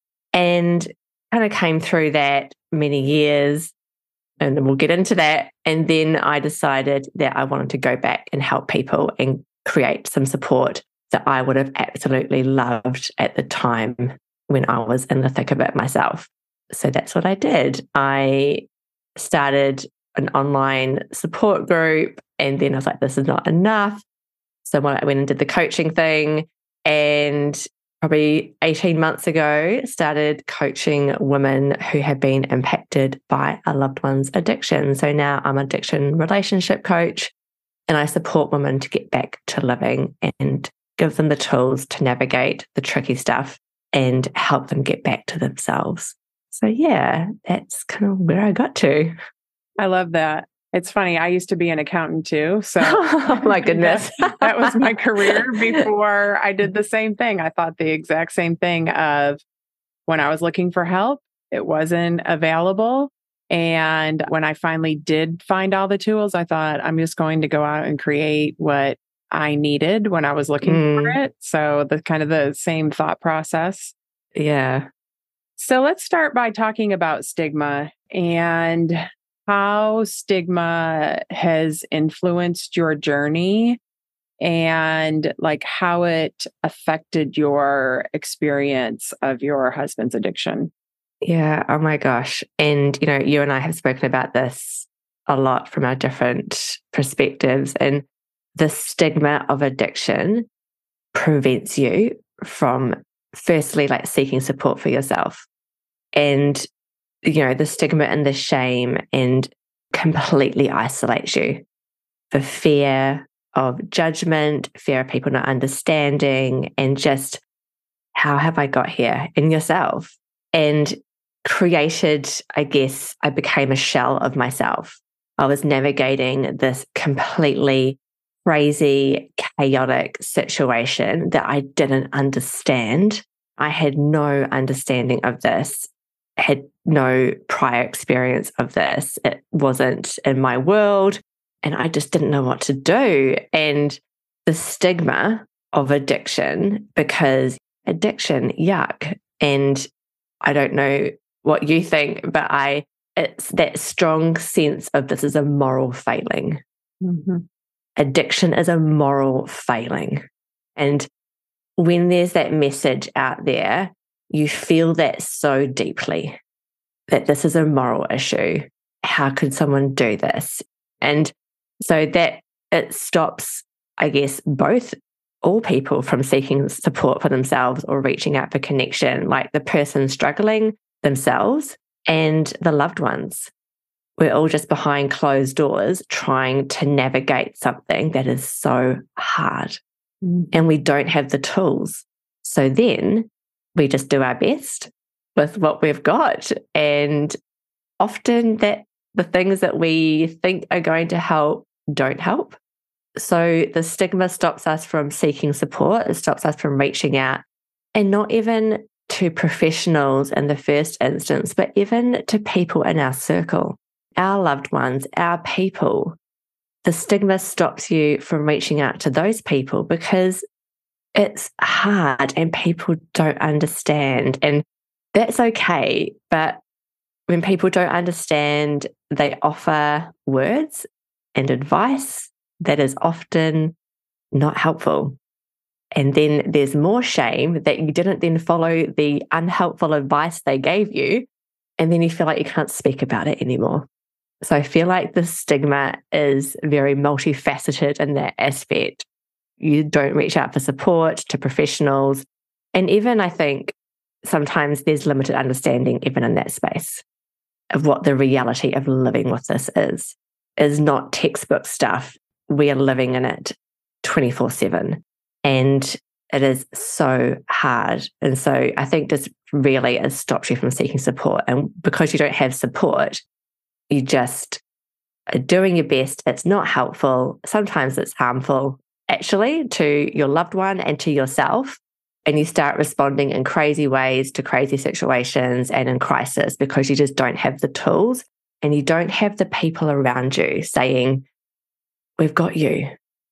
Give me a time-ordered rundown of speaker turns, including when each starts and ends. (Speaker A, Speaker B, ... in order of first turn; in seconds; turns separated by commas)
Speaker A: 0.3-3.7, Speaker A: 4.4-18.6, Speaker A: 19.2-24.0, Speaker A: 24.6-37.3, Speaker A: 37.9-49.1, Speaker B: 49.8-59.4, Speaker A: 52.8-55.4, Speaker B: 60.1-73.9, Speaker A: 70.6-71.2, Speaker A: 74.3-74.9, Speaker B: 75.6-83.8, Speaker B: 84.4-90.7, Speaker A: 91.2-98.0, Speaker A: 98.5-100.5, Speaker A: 101.1-105.5, Speaker A: 106.1-106.6, Speaker A: 107.2-111.6, Speaker A: 112.3-117.4, Speaker A: 118.2-149.9, Speaker A: 150.4-156.6, Speaker B: 157.0-157.4, Speaker A: 158.0-160.2, Speaker A: 160.8-161.1, Speaker A: 161.8-166.4, Speaker A: 167.1-183.5, Speaker A: 184.2-189.8, Speaker B: 190.2-190.5, Speaker A: 190.5-197.3, Speaker A: 198.0-202.6, Speaker A: 203.2-207.4, Speaker A: 207.9-216.2, Speaker A: 216.8-220.4, Speaker A: 221.1-226.6, Speaker A: 227.3-233.7, Speaker A: 234.3-235.2, Speaker A: 235.9-241.3, Speaker A: 241.8-243.9, Speaker A: 244.4-249.0, Speaker A: 249.6-257.0, Speaker A: 257.7-273.2, Speaker A: 273.9-274.6, Speaker A: 275.3-291.2, Speaker A: 292.2-292.9